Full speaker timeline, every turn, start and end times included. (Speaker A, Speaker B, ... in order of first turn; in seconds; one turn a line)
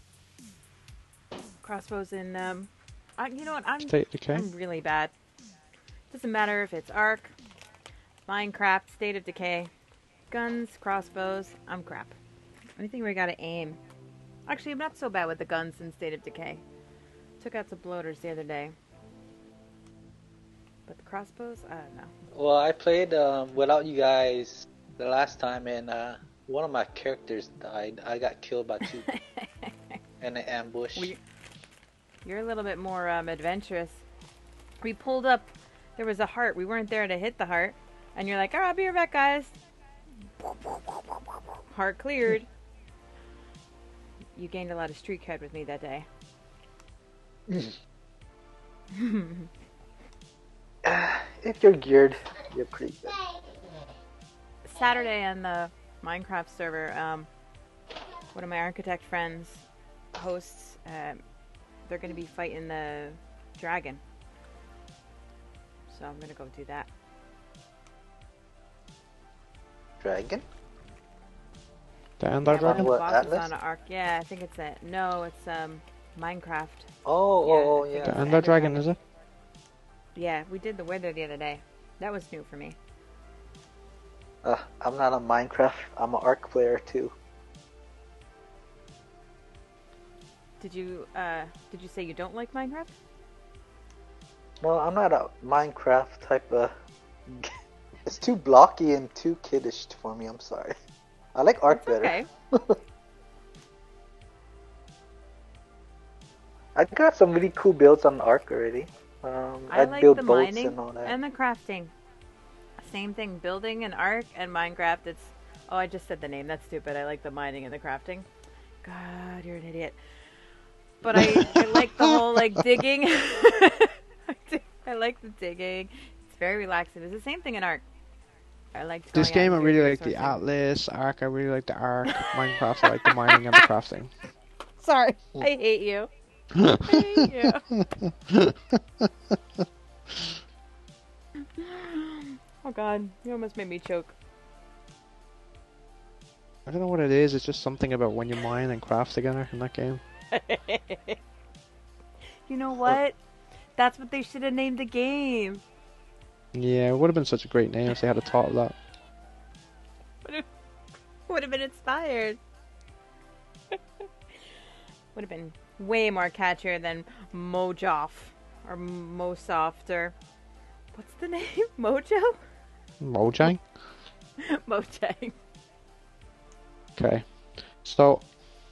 Speaker A: 1.6-5.1
Speaker B: 3.9-4.5
Speaker A: 6.1-7.3
Speaker A: 8.2-9.7
Speaker A: 10.3-12.1
Speaker A: 12.8-13.8
Speaker A: 14.5-16.6
Speaker A: 17.4-18.7
Speaker A: 20.9-22.1
Speaker C: 22.3-29.1
Speaker A: 28.8-30.0
Speaker C: 30.2-31.1
Speaker A: 30.9-31.2
Speaker A: 32.2-34.0
Speaker A: 34.8-39.5
Speaker A: 40.4-42.5
Speaker A: 44.3-46.1
Speaker C: 47.5-47.7
Speaker A: 48.9-49.5
Speaker C: 50.8-53.2
Speaker A: 54.6-57.3
Speaker A: 58.3-61.2
Speaker A: 61.9-64.0
Speaker A: 65.9-66.9
Speaker C: 70.0-70.4
Speaker B: 72.2-72.9
Speaker A: 72.5-76.9
Speaker C: 72.6-73.5
Speaker C: 77.0-78.3
Speaker A: 77.4-78.8
Speaker B: 78.0-79.0
Speaker A: 80.1-82.8
Speaker C: 84.4-87.1
Speaker A: 90.6-92.9
Speaker C: 94.6-96.7
Speaker C: 97.3-97.5
Speaker C: 98.0-100.8
Speaker C: 101.3-102.8
Speaker A: 101.7-102.3
Speaker C: 106.7-111.2
Speaker A: 109.7-111.9
Speaker A: 112.8-118.3
Speaker A: 118.8-120.0
Speaker A: 121.0-127.8
Speaker B: 121.2-122.2
Speaker A: 128.7-130.4
Speaker B: 129.1-134.1
Speaker A: 133.1-133.7
Speaker A: 134.8-137.7
Speaker B: 136.6-137.2
Speaker B: 137.7-139.3
Speaker A: 141.6-144.1
Speaker B: 146.7-150.0
Speaker A: 150.3-151.2
Speaker A: 152.5-153.2
Speaker A: 153.8-155.6
Speaker B: 156.5-158.7
Speaker A: 161.3-162.4
Speaker A: 165.1-170.1
Speaker A: 170.9-172.4
Speaker B: 173.0-173.7
Speaker A: 173.4-173.7
Speaker A: 174.4-175.3
Speaker B: 176.9-178.3